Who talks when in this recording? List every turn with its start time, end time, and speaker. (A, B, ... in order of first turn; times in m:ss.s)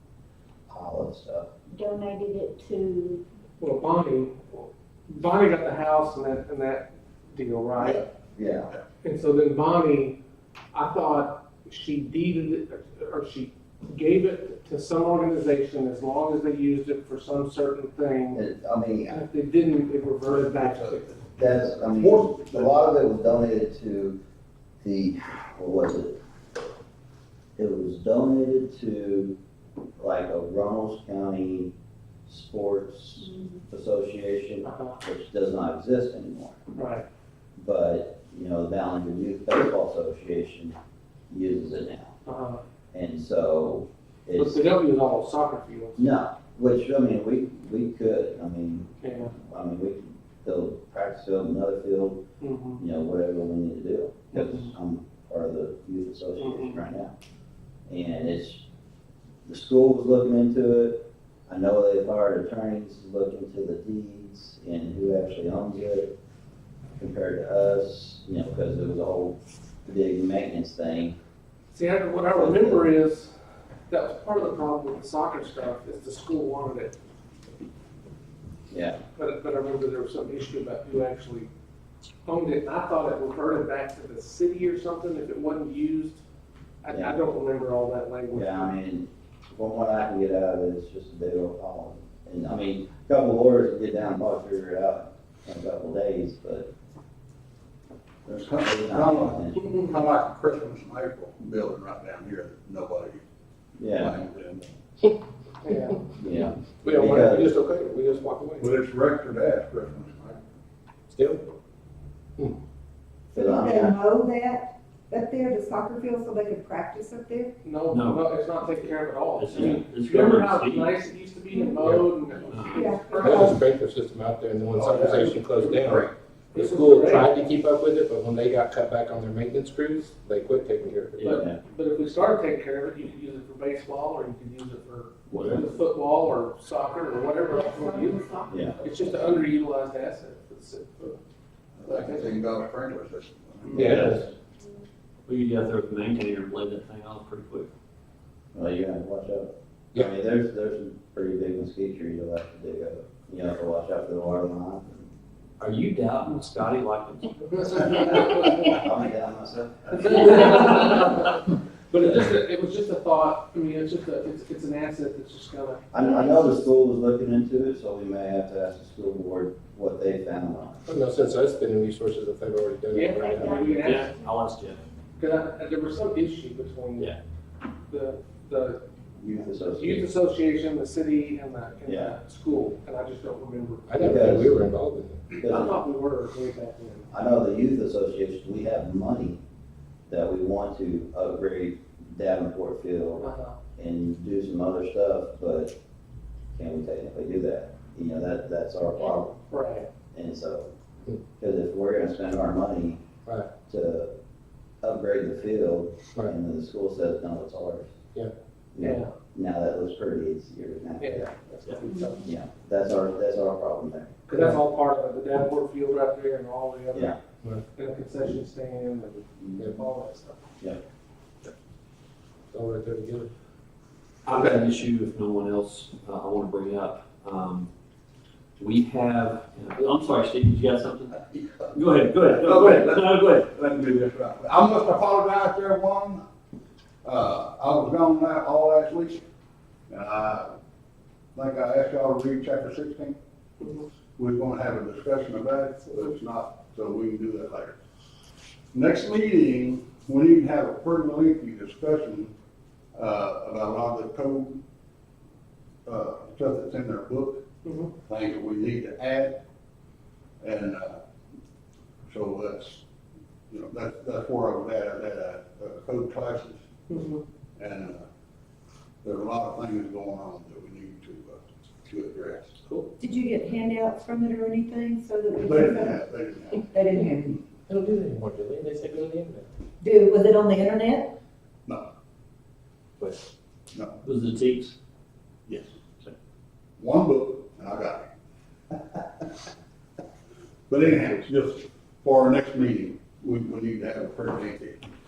0:00.7-0:01.5 A
0:01.8-0:03.2 B
0:03.6-0:08.1 C
0:08.4-0:08.7 A
0:09.0-0:10.2 C
0:10.7-0:18.4 C
0:18.3-0:19.2 A
0:19.1-0:21.3 C
0:20.6-0:22.8 D
0:21.4-0:24.2 A
0:24.8-0:26.2 A
0:27.6-0:29.4 A
0:30.0-0:31.7 A
0:32.3-0:36.6 A
0:34.6-0:35.0 C
0:36.7-0:37.0 C
0:37.6-0:40.8 A
0:41.3-0:42.2 A
0:42.2-0:42.6 C
0:42.9-0:44.6 A
0:44.4-0:46.1 C
0:46.0-0:52.2 A
0:49.0-0:49.4 C
0:52.4-0:52.8 C
0:52.8-0:57.1 A
0:54.3-0:54.7 C
0:56.4-0:56.8 C
0:57.9-0:58.6 A
0:59.5-1:06.1 A
1:07.0-1:11.2 A
1:11.7-1:13.4 C
1:12.3-1:12.9 A
1:13.9-1:17.0 C
1:18.7-1:19.0 A
1:19.2-1:21.5 C
1:22.2-1:26.2 C
1:26.8-1:28.8 C
1:26.9-1:27.3 A
1:28.3-1:36.7 A
1:38.3-1:43.2 D
1:38.6-1:39.7 A
1:43.8-1:44.2 A
1:44.0-1:44.8 D
1:45.6-1:46.0 C
1:46.2-1:47.5 A
1:46.8-1:48.7 E
1:48.6-1:50.4 D
1:51.1-1:51.5 E
1:53.3-1:57.5 F
1:53.3-1:54.0 A
1:57.6-2:03.5 C
1:57.9-1:58.2 G
1:59.4-2:00.5 G
2:01.8-2:02.1 E
2:02.7-2:03.6 F
2:03.2-2:11.4 E
2:04.8-2:06.0 D
2:06.5-2:07.3 C
2:11.2-2:21.2 C
2:15.3-2:15.6 A
2:15.4-2:15.6 E
2:17.5-2:18.9 F
2:18.5-2:18.8 A
2:21.8-2:23.9 D
2:21.9-2:22.3 C
2:23.7-2:24.3 E
2:23.7-2:24.3 A
2:25.3-2:27.7 G
2:28.5-2:35.1 A
2:35.6-2:38.2 G
2:37.9-2:38.8 C
2:38.6-2:40.5 A
2:40.0-2:46.5 C
2:45.9-2:50.8 A
2:50.9-2:53.7 E
2:52.9-2:54.1 C
2:53.6-2:54.1 B
2:53.8-2:54.8 G
2:55.2-2:57.2 C
2:57.9-2:58.8 C
2:59.2-3:00.1 A
2:59.7-3:03.9 C
3:01.9-3:02.2 A
3:03.9-3:05.2 E
3:04.0-3:04.6 A
3:05.4-3:05.8 A
3:05.4-3:07.1 C
3:07.1-3:09.4 A
3:10.1-3:13.3 A
3:13.2-3:13.6 C
3:13.8-3:15.8 A
3:16.6-3:19.4 A
3:19.5-3:19.9 C
3:20.1-3:20.7 A
3:21.4-3:23.0 A
3:23.7-3:24.1 A
3:24.8-3:27.9 A
3:28.8-3:31.3 A
3:28.8-3:29.1 C
3:31.0-3:32.2 C
3:32.2-3:34.1 A
3:34.3-3:37.2 C
3:37.8-3:40.4 C
3:42.5-3:43.3 E
3:44.3-3:47.7 G
3:48.6-3:53.4 G
3:52.3-3:56.2 D
3:57.0-3:59.2 D
3:59.9-4:00.6 D
4:01.4-4:03.2 D
4:04.2-4:07.8 D
4:08.7-4:12.3 D
4:13.0-4:14.6 D
4:15.9-4:17.4 D
4:17.6-4:17.9 C
4:18.1-4:19.4 D
4:20.4-4:21.0 D
4:22.1-4:22.8 D
4:23.5-4:26.6 D
4:26.9-4:27.2 C
4:27.6-4:28.0 D
4:29.0-4:32.6 D
4:33.0-4:36.1 F
4:35.4-4:36.6 D
4:36.6-4:37.4 F
4:37.7-4:39.5 E
4:39.8-4:41.1 F
4:43.7-4:44.0 D
4:44.0-4:44.8 G
4:46.8-4:48.1 D
4:50.7-4:54.8 D